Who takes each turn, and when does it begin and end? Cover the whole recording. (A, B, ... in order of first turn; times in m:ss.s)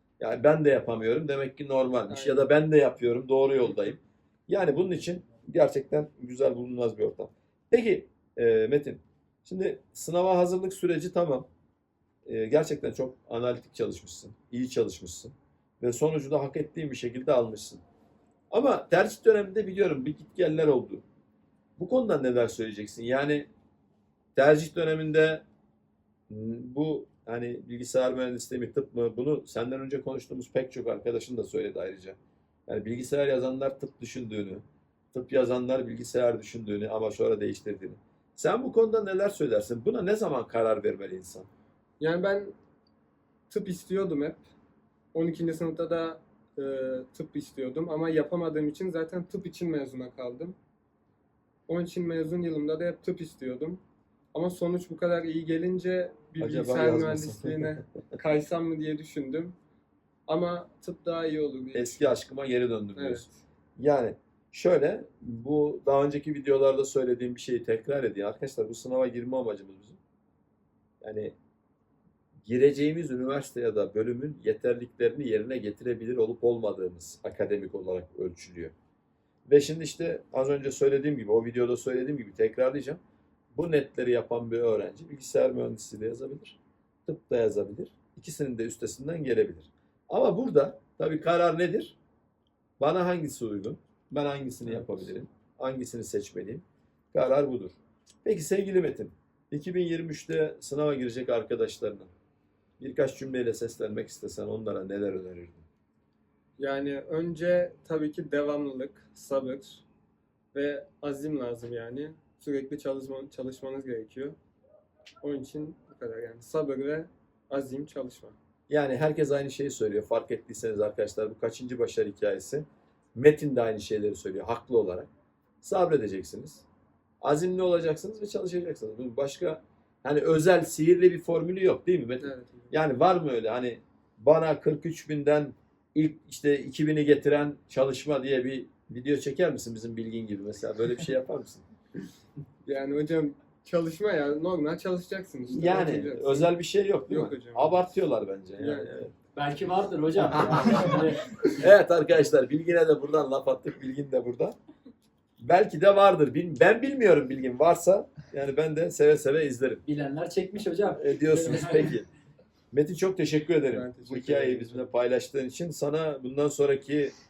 0:00.2-0:11.5 A
0:02.1-0:02.5 B
0:12.2-0:17.8 A
0:18.5-0:21.0 A
0:21.8-0:23.5 A
0:24.3-0:25.4 A
0:26.3-0:32.2 A
0:32.7-0:41.5 A
0:42.0-0:42.5 B
0:43.5-0:44.4 B
0:45.1-0:50.6 B
0:51.7-0:53.8 B
0:54.3-0:59.6 B
0:56.4-0:57.8 A
1:00.3-1:02.2 B
1:01.7-1:10.0 A
1:02.9-1:03.4 B
1:11.0-1:11.3 A
1:12.4-1:18.7 A
1:19.5-1:23.0 A
1:23.5-1:32.0 A
1:32.8-1:42.1 A
1:34.6-1:35.1 B
1:42.8-1:45.6 A
1:46.6-1:49.8 B
1:50.5-1:54.4 B
1:55.2-1:58.4 B
1:58.7-2:05.1 A
2:05.6-2:06.6 A
2:07.2-2:21.6 A
2:12.2-2:12.7 B
2:22.6-2:26.5 B
2:25.5-2:29.1 A
2:27.1-2:27.8 B
2:28.6-2:29.0 B
2:29.3-2:31.7 C
2:30.2-2:34.6 A
2:35.4-2:39.8 A
2:39.8-2:42.0 C
2:41.0-2:42.1 A
2:42.7-2:47.1 A
2:43.7-2:44.9 B